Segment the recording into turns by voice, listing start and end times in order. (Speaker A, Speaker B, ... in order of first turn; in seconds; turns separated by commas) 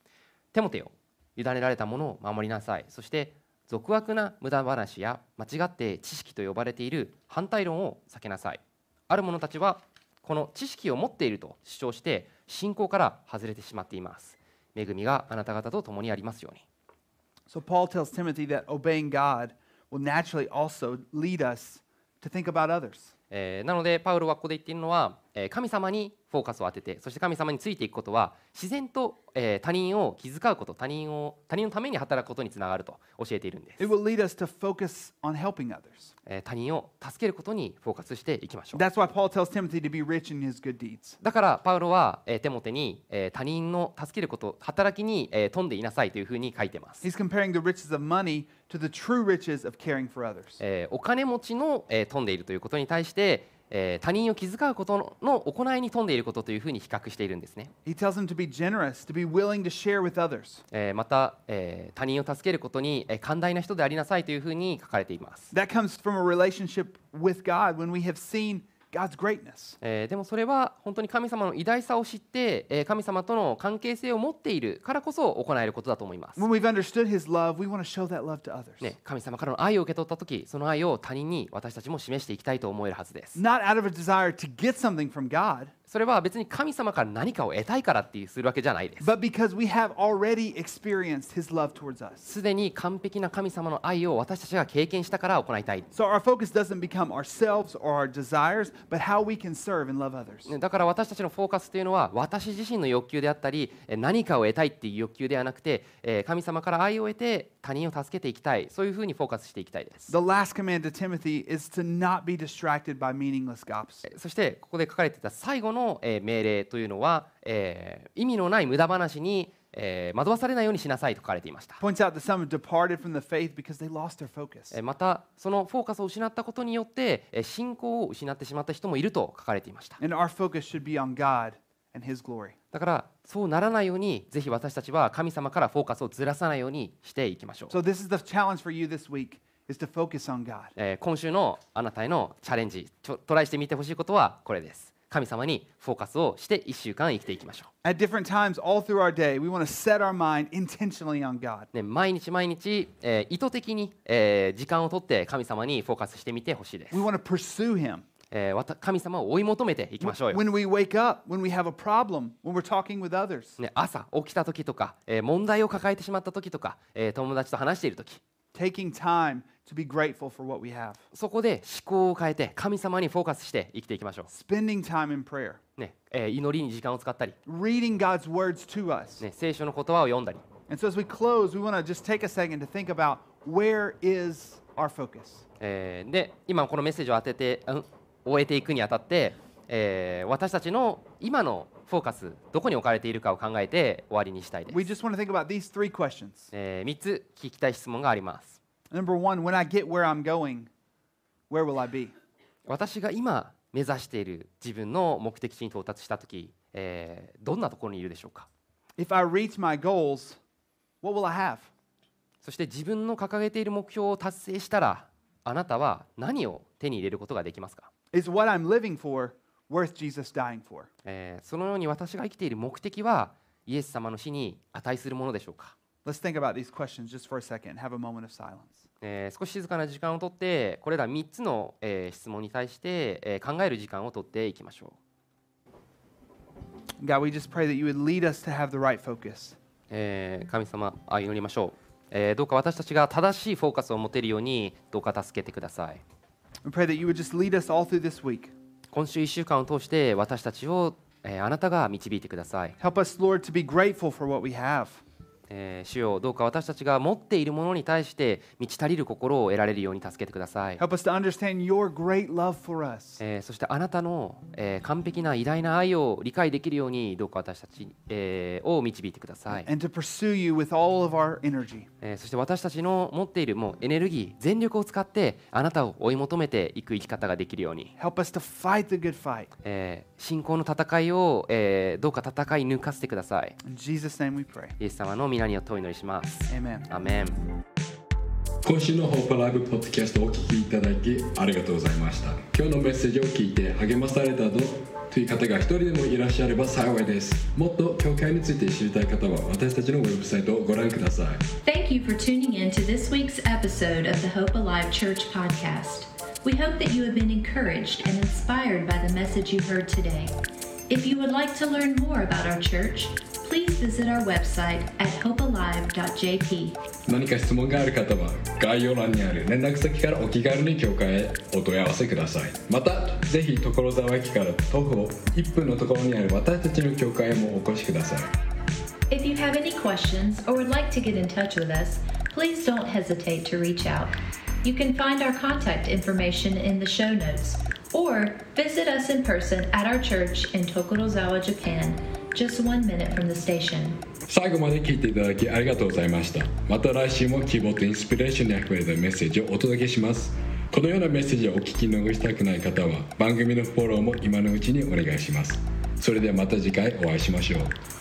Speaker A: 0.5-16.6, Speaker B: 17.5-23.1, Speaker A: 23.3-33.9, Speaker B: 33.8-36.1, Speaker A: 36.2-38.8, Speaker B: 38.7-41.2, Speaker A: 41.2-47.0, Speaker B: 47.0-50.6, Speaker A: 50.6-57.7, Speaker B: 57.9-60.6, Speaker A: 60.7-65.5, Speaker B: 65.5-69.8, Speaker A: 69.8-76.4, Speaker B: 76.3-78.9, Speaker A: 78.8-83.4, Speaker B: 83.3-85.7, Speaker A: 85.9-89.1, Speaker B: 89.0-92.2, Speaker A: 92.2-95.9, Speaker B: 95.9-100.5, Speaker A: 100.5-110.1, Speaker B: 110.1-114.0, Speaker A: 114.0-121.8, Speaker B: 121.8-124.8, Speaker A: 124.7-130.0, Speaker B: 130.0-132.6, Speaker A: 132.7-137.8, Speaker B: 137.7-140.7, Speaker A: 140.8-147.7, Speaker B: 147.8-151.7, Speaker A: 151.7-157.1, Speaker B: 156.9-158.0, Speaker A: 158.3-160.4, Speaker B: 160.0-163.6, Speaker A: 163.6-168.2, Speaker B: 168.5-171.0, Speaker A: 171.1-174.3, Speaker B: 174.3-175.6, Speaker A: 175.8-177.3, Speaker B: 177.4-179.2, Speaker A: 179.2-180.4, Speaker B: 180.7-185.4, Speaker A: 185.6-194.9, Speaker B: 194.7-196.5, Speaker A: 196.5-198.6, Speaker B: 198.9-200.7, Speaker B: 201.5-202.1, Speaker A: 202.7-208.5, Speaker B: 209.0-210.4, Speaker B: 211.0-211.7, Speaker A: 212.4-217.9, Speaker B: 218.1-220.9, Speaker A: 221.0-225.7, Speaker B: 226.0-228.8, Speaker A: 229.0-235.0, Speaker B: 237.0-239.6, Speaker A: 239.9-246.0, Speaker B: 246.6-248.5, Speaker A: 248.9-252.7, Speaker B: 252.8-255.0, Speaker A: 255.5-260.8, Speaker B: 260.8-263.2, Speaker A: 263.2-269.7, Speaker B: 269.5-271.9, Speaker A: 272.0-277.9, Speaker B: 278.0-279.5, Speaker A: 279.6-283.6, Speaker B: 283.6-284.8, Speaker A: 284.8-287.4, Speaker B: 286.5-286.9, Speaker C: 288.6-301.4, Speaker D: 301.6-310.3, Speaker D: 310.9-316.8, Speaker C: 317.1-328.3, Speaker D: 329.1-344.0, Speaker C: 344.3-357.7